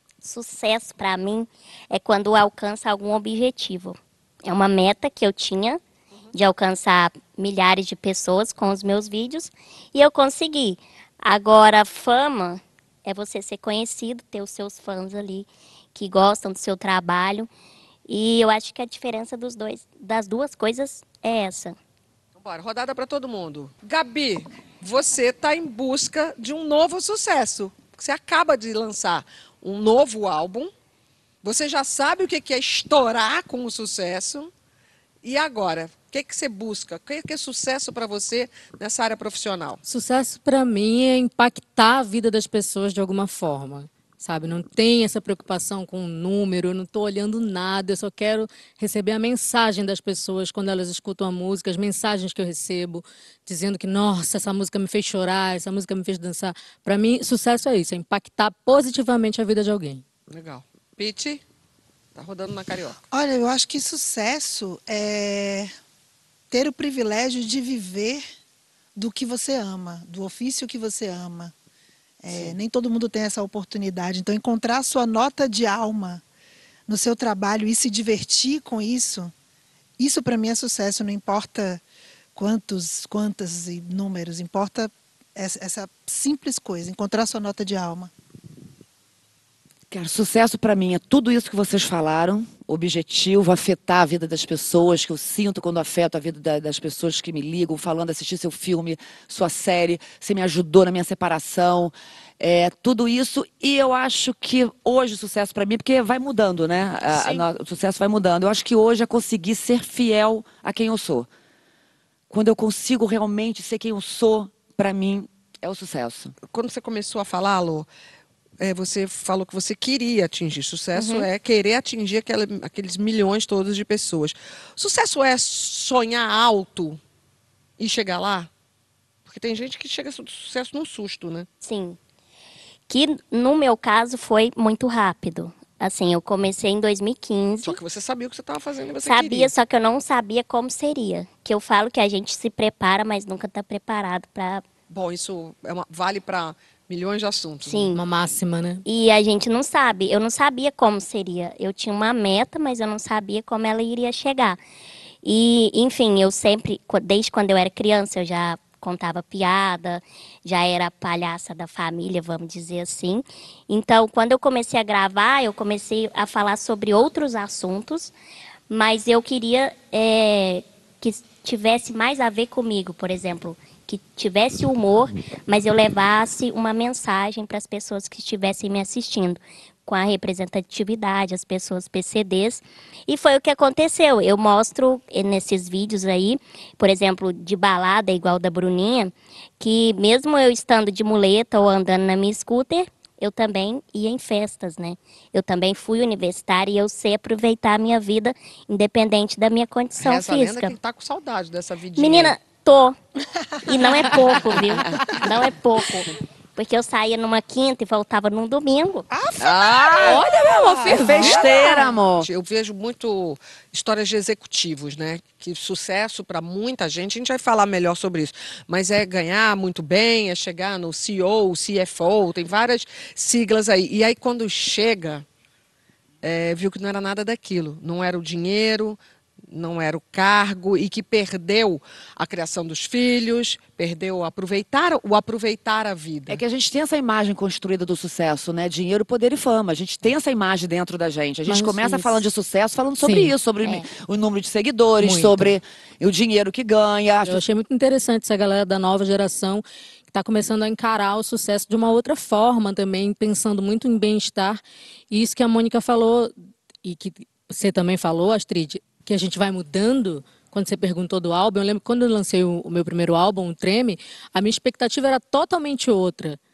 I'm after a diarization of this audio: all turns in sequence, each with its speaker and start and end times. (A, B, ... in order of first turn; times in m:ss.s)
0:00.2-0:05.8 A
0:06.3-0:17.5 A
0:18.1-0:21.8 A
0:22.4-0:30.7 B
0:31.4-0:34.5 B
0:35.2-0:39.8 B
0:39.9-1:00.0 C
1:00.3-1:01.4 B
1:02.2-1:03.0 B
1:03.1-1:05.7 D
1:06.5-1:08.2 D
1:09.0-1:11.5 D
1:12.2-1:16.2 D
1:12.3-1:12.6 B
1:16.9-1:19.3 D
1:20.0-1:21.8 D
1:22.4-1:28.1 D
1:29.9-1:51.3 E
1:47.1-1:47.4 B
1:52.3-1:56.4 E
1:56.5-1:57.9 B
1:58.6-2:07.0 B
2:01.0-2:01.3 A
2:07.8-2:08.5 B
2:09.3-2:11.5 B
2:11.6-2:12.0 A
2:12.9-2:17.8 A
2:17.6-2:19.5 B
2:19.0-2:24.6 A
2:24.9-2:27.9 B
2:27.7-2:28.0 A
2:27.9-2:28.8 C
2:28.8-2:34.6 A
2:35.2-2:48.1 A
2:48.7-3:20.8 A
3:20.0-3:22.4 B
3:22.0-3:23.0 A
3:23.7-3:29.1 A
3:24.0-3:25.2 E
3:29.4-3:45.3 B
3:29.4-3:30.2 E
3:30.0-3:31.8 C
3:30.9-3:32.3 E
3:46.2-3:49.0 B
3:49.5-3:56.4 B
3:56.3-4:07.4 E
4:01.4-4:02.2 C
4:03.0-4:03.4 C
4:03.6-4:03.9 A
4:05.0-4:05.6 C
4:07.2-4:26.4 C